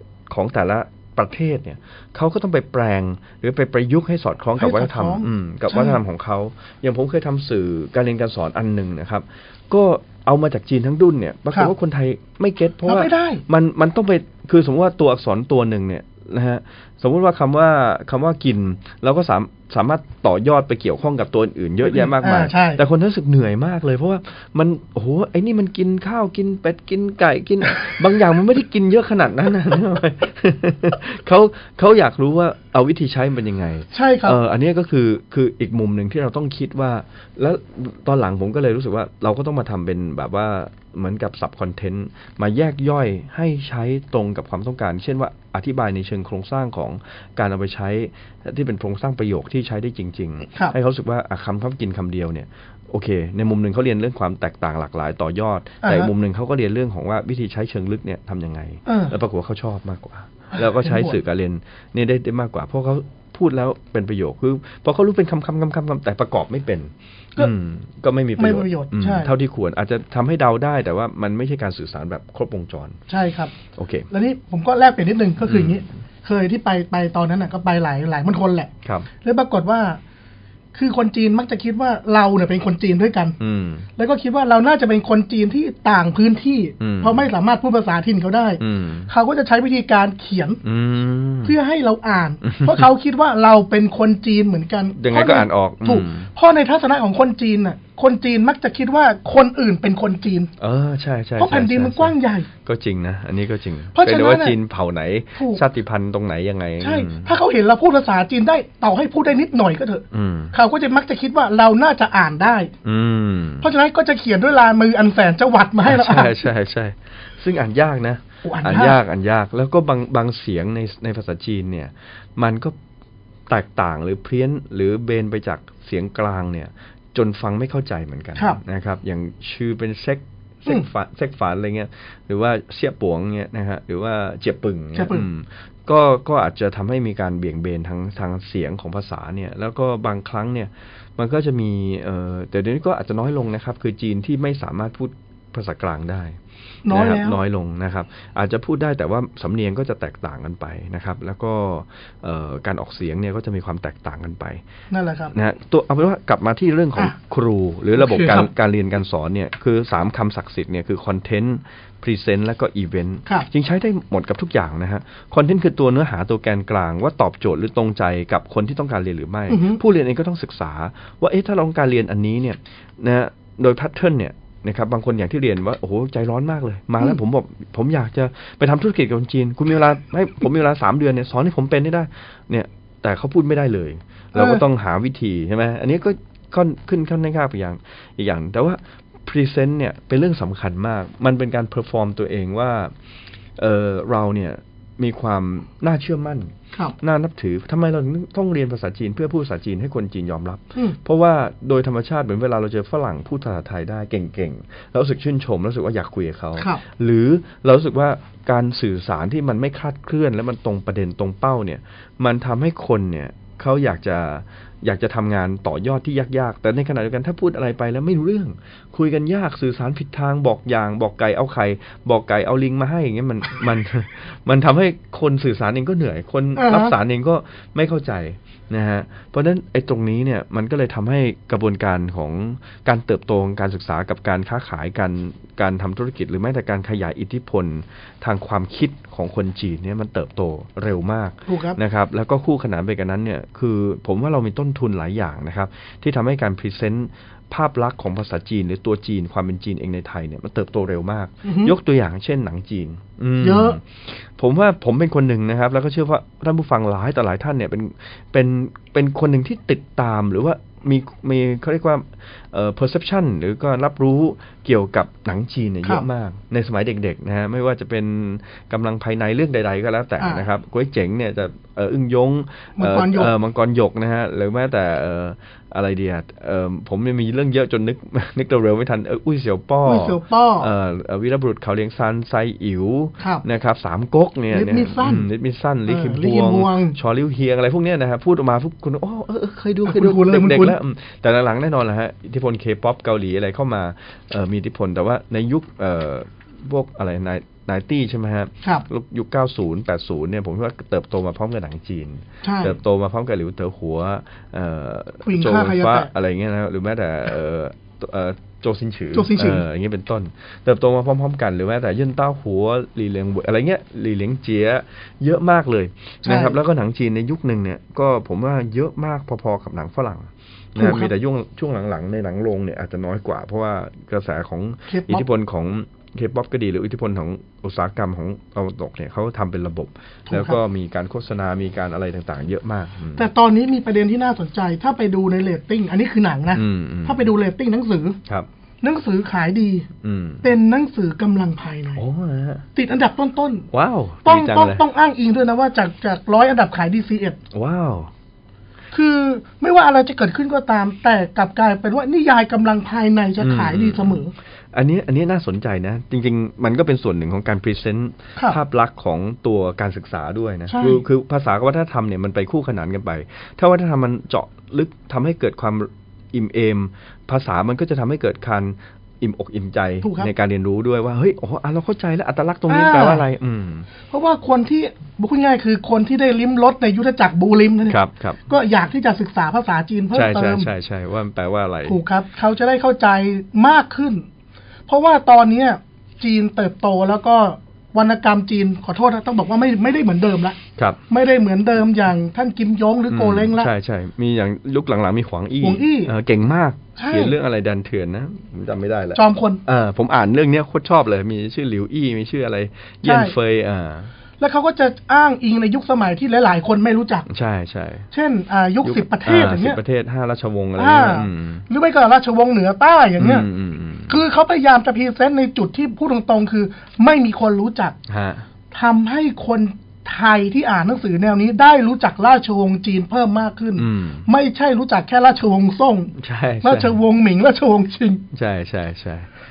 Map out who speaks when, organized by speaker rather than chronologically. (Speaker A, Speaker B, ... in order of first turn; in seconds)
Speaker A: 0.3-73.0, 73.7-74.1, 75.4-75.8, 83.4-83.9, 86.8-87.3, 88.6-89.1, 90.6-91.5, 92.4-92.8, 94.9-96.3, 100.6-107.3, 110.1-110.5, 112.8-113.7, 115.8-122.7, 123.5-154.6, 155.3-192.9, 193.6-333.3, 336.5-337.3, 340.0-340.5, 341.9-342.6, 343.7-344.8, 347.5-348.1, 353.4-354.2, 354.7-373.9, 377.9-378.4, 380.1-382.0, 393.1-404.1, 407.3-408.1, 408.8-411.7, 413.2-414.2, 418.1-418.5, 423.8-424.3, 426.1-427.0, 428.3-429.3
Speaker B: 4.6-6.0, 12.8-13.4, 21.8-22.8, 33.9-34.4, 55.8-56.1, 58.9-59.1, 60.6-61.1, 68.4-69.3, 73.1-73.5, 74.1-78.7, 79.2-80.0, 80.7-83.3, 84.0-90.6, 91.4-100.5, 101.4-102.5, 103.9-104.5, 105.4-105.6, 106.8-112.7, 113.6-116.4, 118.4-119.0, 134.9-135.3, 146.8-147.4, 154.9-155.3, 158.0-158.5, 169.5-169.8, 184.3-184.6, 226.6-226.9, 241.5-241.8, 251.4-251.7, 253.4-253.8, 272.8-273.3, 279.8-280.7, 284.5-285.3, 285.9-286.9, 289.8-290.8, 302.4-302.8, 305.2-306.1, 309.1-309.6, 316.2-316.6, 320.8-321.1, 324.9-325.2, 330.3-330.6, 333.1-338.2, 338.8-339.9, 340.4-342.0, 342.7-343.7, 344.2-347.4, 348.9-354.3, 360.7-361.0, 370.0-370.3, 372.7-373.2, 374.1-380.7, 381.9-384.2, 384.9-390.6, 391.1-393.7, 395.6-396.1, 397.0-397.3, 399.1-399.6, 403.0-403.3, 404.4-407.2, 408.1-409.8, 410.8-413.5, 414.1-417.9, 418.7-428.2